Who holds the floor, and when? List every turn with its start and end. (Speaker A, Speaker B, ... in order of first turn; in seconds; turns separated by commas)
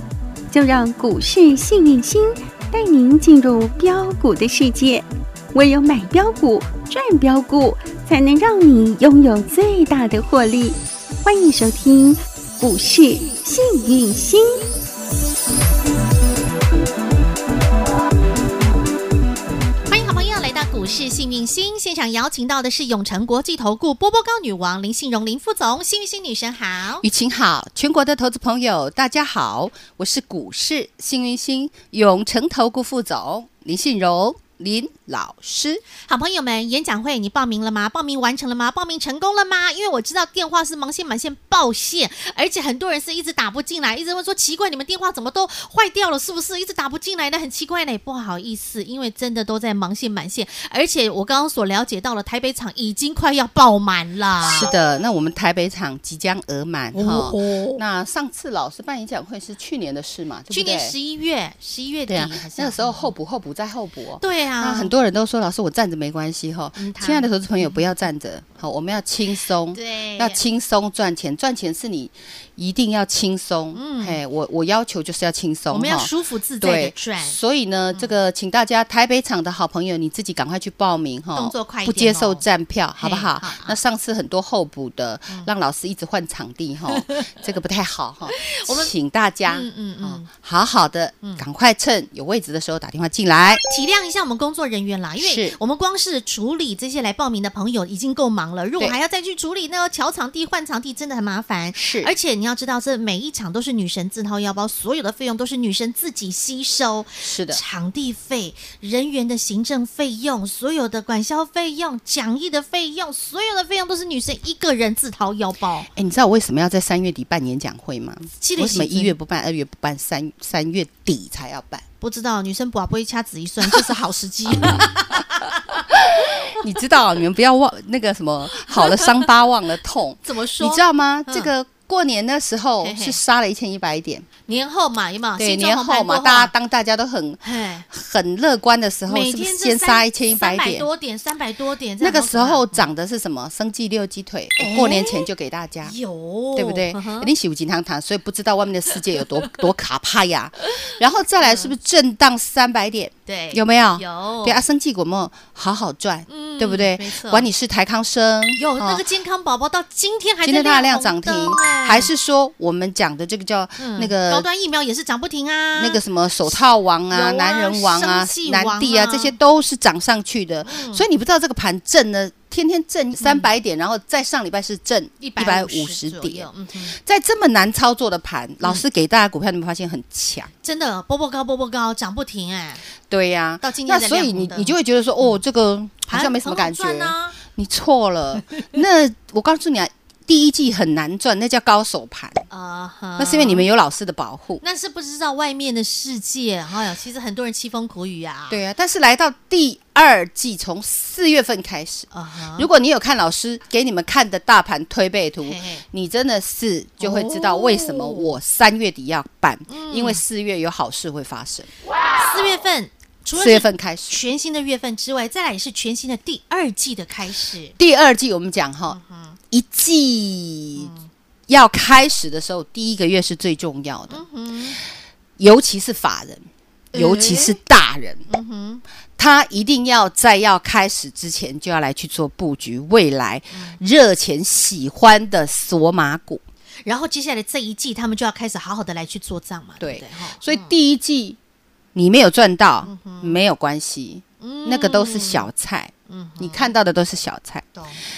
Speaker A: 0.5-14.6, Speaker B: 19.9-27.1, Speaker C: 27.0-35.8, Speaker B: 36.1-54.7, Speaker C: 54.5-61.0, Speaker B: 56.9-57.8, Speaker B: 60.5-63.1, Speaker C: 62.1-76.1, Speaker B: 64.2-64.9, Speaker B: 66.8-67.8, Speaker B: 69.7-70.4, Speaker B: 73.7-74.2, Speaker B: 75.7-77.4, Speaker C: 76.6-93.6, Speaker B: 81.3-82.4, Speaker B: 83.0-83.8, Speaker B: 87.0-87.3, Speaker B: 88.3-88.9, Speaker B: 89.5-90.3, Speaker B: 93.7-115.9, Speaker C: 95.2-95.6, Speaker C: 101.8-102.1, Speaker C: 107.2-107.6, Speaker C: 115.9-121.8, Speaker B: 118.4-119.2, Speaker B: 122.0-125.8, Speaker C: 123.7-123.9, Speaker C: 125.8-134.3, Speaker B: 128.6-129.2, Speaker B: 130.2-131.5, Speaker B: 132.8-133.2, Speaker B: 134.5-136.5, Speaker C: 135.4-140.9, Speaker B: 137.4-137.9, Speaker B: 139.1-142.9, Speaker C: 142.0-145.9, Speaker B: 144.6-145.3, Speaker B: 145.8-147.3, Speaker C: 146.6-159.1, Speaker B: 149.1-149.5, Speaker B: 150.7-151.7, Speaker B: 153.3-154.6, Speaker B: 156.3-157.5, Speaker B: 158.6-162.1, Speaker C: 160.4-164.5, Speaker B: 163.8-166.6, Speaker C: 165.8-180.5, Speaker B: 167.1-169.4, Speaker B: 170.7-171.1, Speaker B: 173.2-173.5, Speaker B: 175.2-177.0, Speaker B: 180.6-182.8, Speaker C: 183.1-192.5, Speaker B: 183.6-185.4, Speaker B: 186.1-187.4, Speaker B: 192.5-193.7, Speaker C: 193.2-194.6, Speaker B: 194.6-198.6, Speaker C: 198.5-211.7, Speaker B: 202.1-202.7, Speaker B: 205.4-205.8, Speaker B: 207.0-208.3, Speaker B: 209.7-210.2, Speaker B: 212.2-217.8, Speaker C: 213.3-214.2, Speaker C: 217.8-219.0, Speaker B: 218.9-219.4, Speaker C: 219.5-220.9, Speaker B: 220.8-221.1, Speaker C: 221.5-224.2, Speaker B: 224.1-224.8, Speaker C: 225.4-228.3, Speaker B: 226.9-227.6, Speaker B: 228.3-228.8, Speaker C: 229.2-236.4, Speaker B: 233.5-233.8, Speaker B: 236.8-240.7, Speaker C: 239.8-241.4, Speaker C: 241.9-247.7, Speaker B: 242.8-243.4, Speaker B: 244.4-245.5, Speaker B: 246.1-246.7, Speaker B: 247.8-248.0